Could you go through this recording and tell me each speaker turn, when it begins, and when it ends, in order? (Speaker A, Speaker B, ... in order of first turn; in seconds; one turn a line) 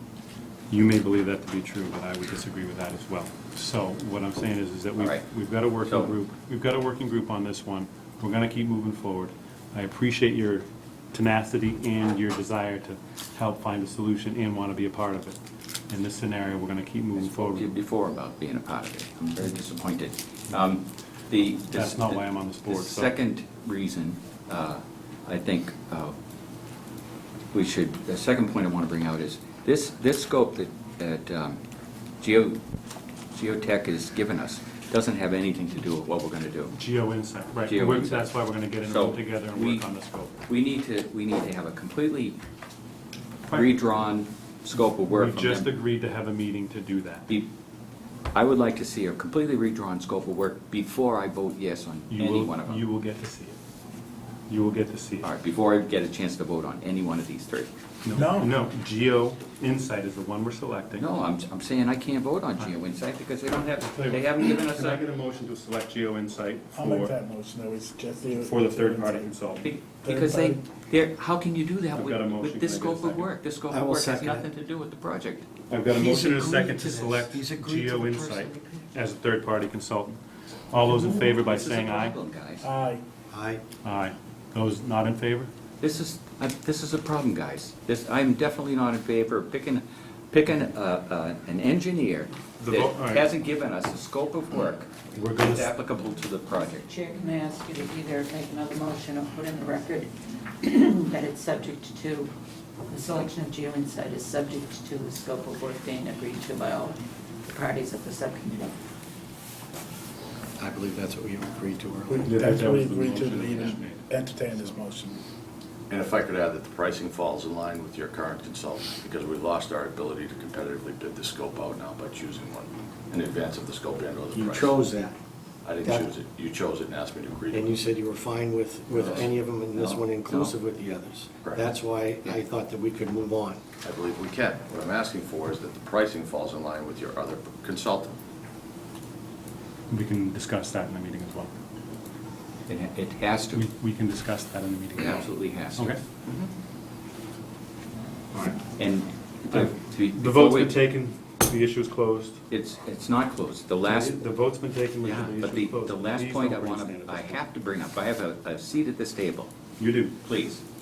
Speaker A: 0.7-15.4
Speaker B: 5.0-5.2
Speaker B: 5.8-6.2
Speaker A: 15.9-17.7
Speaker B: 17.2-26.2
Speaker A: 21.7-23.2
Speaker B: 27.5-31.6
Speaker B: 32.2-32.6
Speaker B: 33.3-36.8
Speaker A: 36.7-40.4
Speaker B: 37.6-39.9
Speaker B: 40.5-42.4
Speaker B: 43.5-45.8
Speaker A: 43.5-43.8
Speaker A: 44.9-47.3
Speaker B: 48.3-52.9
Speaker A: 52.1-53.6
Speaker A: 54.5-55.3
Speaker B: 55.2-57.7
Speaker A: 58.0-61.1
Speaker C: 58.1-58.5
Speaker B: 61.0-65.0
Speaker A: 63.8-67.1
Speaker C: 66.7-69.3
Speaker A: 68.4-69.7
Speaker B: 69.6-75.5
Speaker C: 70.0-70.6
Speaker A: 71.9-73.3
Speaker D: 73.7-74.5
Speaker A: 75.7-82.2
Speaker D: 75.9-78.2
Speaker E: 77.5-78.9
Speaker B: 80.9-82.7
Speaker C: 82.6-83.0
Speaker D: 83.3-83.6
Speaker A: 83.8-85.5
Speaker B: 85.8-96.9
Speaker A: 92.6-93.3
Speaker A: 95.1-95.7
Speaker E: 96.5-102.3
Speaker E: 102.9-108.7
Speaker D: 110.6-112.4
Speaker C: 112.1-115.2
Speaker A: 112.3-114.8
Speaker F: 115.9-124.8
Speaker D: 124.3-125.2
Speaker F: 125.6-127.7
Speaker D: 125.8-126.1
Speaker D: 127.5-133.6
Speaker F: 128.9-130.0
Speaker B: 130.3-130.5
Speaker F: 131.4-131.8
Speaker F: 133.8-138.2
Speaker A: 139.9-141.5
Speaker B: 142.7-143.7
Speaker A: 143.5-146.0
Speaker B: 145.0-146.3
Speaker A: 148.3-148.6
Speaker B: 148.8-150.8
Speaker A: 149.5-152.4
Speaker B: 152.5-154.2
Speaker A: 153.8-157.4
Speaker B: 155.0-159.5
Speaker A: 159.8-160.2
Speaker B: 160.2-160.6